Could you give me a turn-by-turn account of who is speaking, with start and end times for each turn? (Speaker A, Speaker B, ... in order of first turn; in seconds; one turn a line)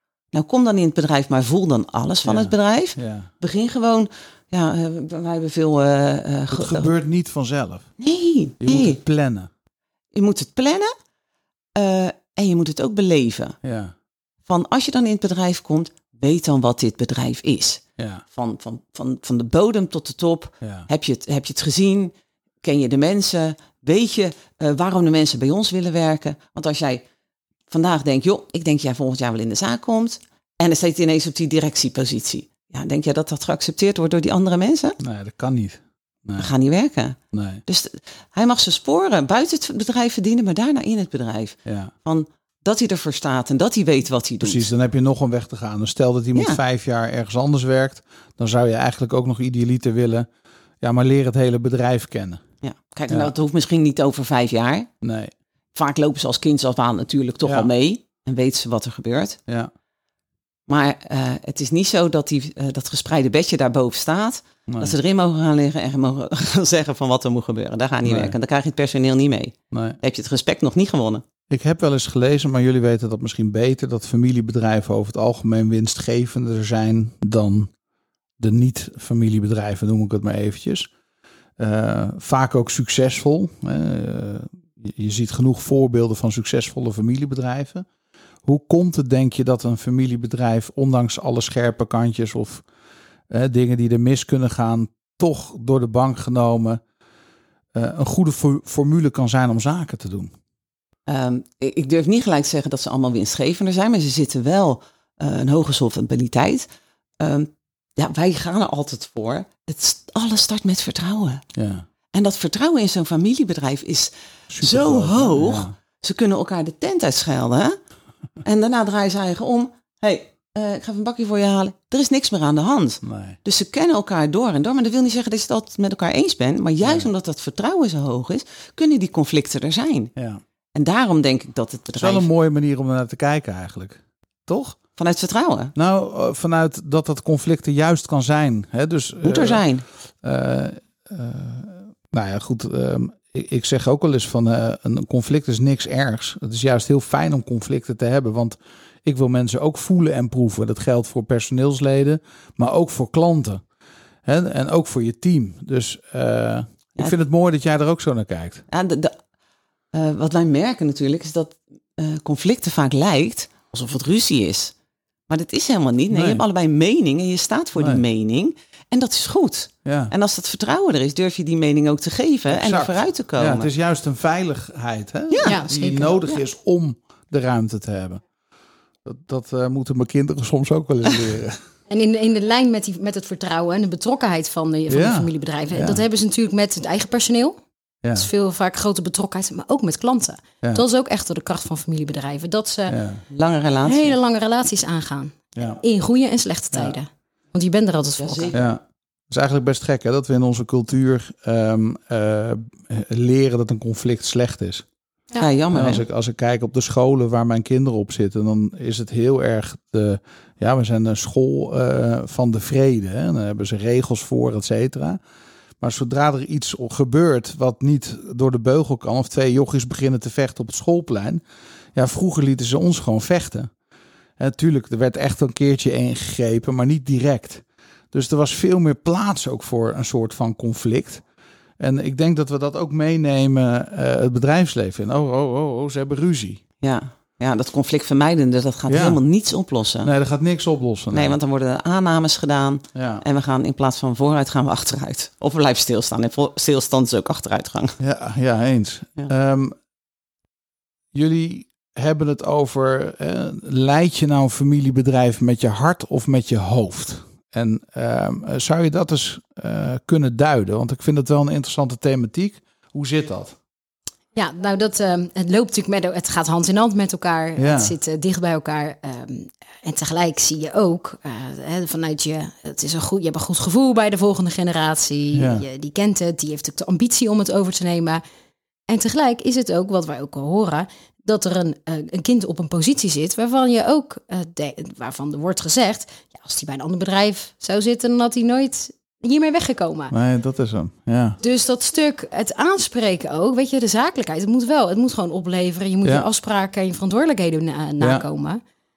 Speaker A: 0.3-6.9
Speaker B: 2.2-3.3
Speaker B: 6.5-7.9
Speaker A: 8.0-9.0
Speaker B: 8.6-9.5
Speaker A: 10.1-10.9
Speaker A: 11.8-13.6
Speaker B: 13.6-13.9
Speaker A: 14.5-17.8
Speaker B: 18.0-18.2
Speaker A: 18.3-27.0
Speaker B: 20.6-20.9
Speaker A: 27.7-35.0
Speaker B: 35.0-36.5
Speaker A: 36.4-44.7
Speaker B: 37.3-37.6
Speaker B: 41.7-41.9
Speaker B: 44.4-50.3
Speaker A: 46.3-46.6
Speaker B: 50.8-52.4
Speaker A: 52.6-54.9
Speaker B: 53.1-53.3
Speaker B: 55.0-55.3
Speaker A: 55.8-59.4
Speaker B: 57.4-57.7
Speaker A: 60.7-71.2
Speaker B: 64.7-65.0
Speaker B: 68.0-68.3
Speaker B: 69.7-70.0
Speaker B: 71.5-77.7
Speaker B: 78.4-80.9
Speaker B: 81.6-87.9
Speaker B: 88.5-92.7
Speaker B: 93.3-96.8
Speaker B: 97.7-100.3
Speaker A: 101.1-106.7
Speaker A: 107.2-111.4
Speaker B: 111.5-111.9
Speaker A: 112.1-117.8
Speaker B: 114.5-115.8
Speaker A: 118.4-130.1
Speaker B: 123.0-123.4
Speaker B: 126.8-127.1
Speaker B: 130.2-130.4
Speaker A: 130.8-132.3
Speaker B: 131.9-134.8
Speaker A: 135.0-135.7
Speaker B: 135.8-139.7
Speaker A: 139.2-139.8
Speaker B: 140.2-153.6
Speaker B: 154.2-158.7
Speaker A: 158.7-159.2
Speaker A: 159.9-164.7
Speaker A: 165.3-173.7
Speaker B: 166.1-166.4
Speaker B: 167.8-168.0
Speaker B: 169.8-170.1
Speaker B: 172.5-178.2
Speaker A: 175.3-175.6
Speaker C: 175.4-176.1
Speaker B: 179.1-181.6
Speaker C: 181.9-187.6
Speaker B: 184.9-186.0
Speaker B: 188.0-188.3
Speaker C: 188.2-193.0
Speaker B: 192.9-193.2
Speaker A: 193.3-194.1
Speaker C: 193.8-198.6
Speaker A: 198.2-198.6
Speaker B: 198.5-204.8
Speaker A: 205.3-206.0
Speaker B: 205.7-215.2
Speaker B: 215.8-221.4
Speaker B: 221.9-223.7
Speaker B: 224.4-231.2
Speaker B: 231.8-236.6
Speaker A: 236.8-240.1
Speaker B: 238.9-239.2
Speaker B: 240.0-241.4
Speaker A: 241.1-248.0
Speaker B: 242.9-243.2
Speaker B: 248.0-249.8
Speaker B: 251.1-263.6
Speaker C: 264.4-278.2
Speaker B: 267.6-267.9
Speaker B: 275.3-275.6
Speaker C: 278.9-290.1
Speaker B: 290.1-291.4
Speaker C: 291.4-298.6
Speaker B: 298.0-298.2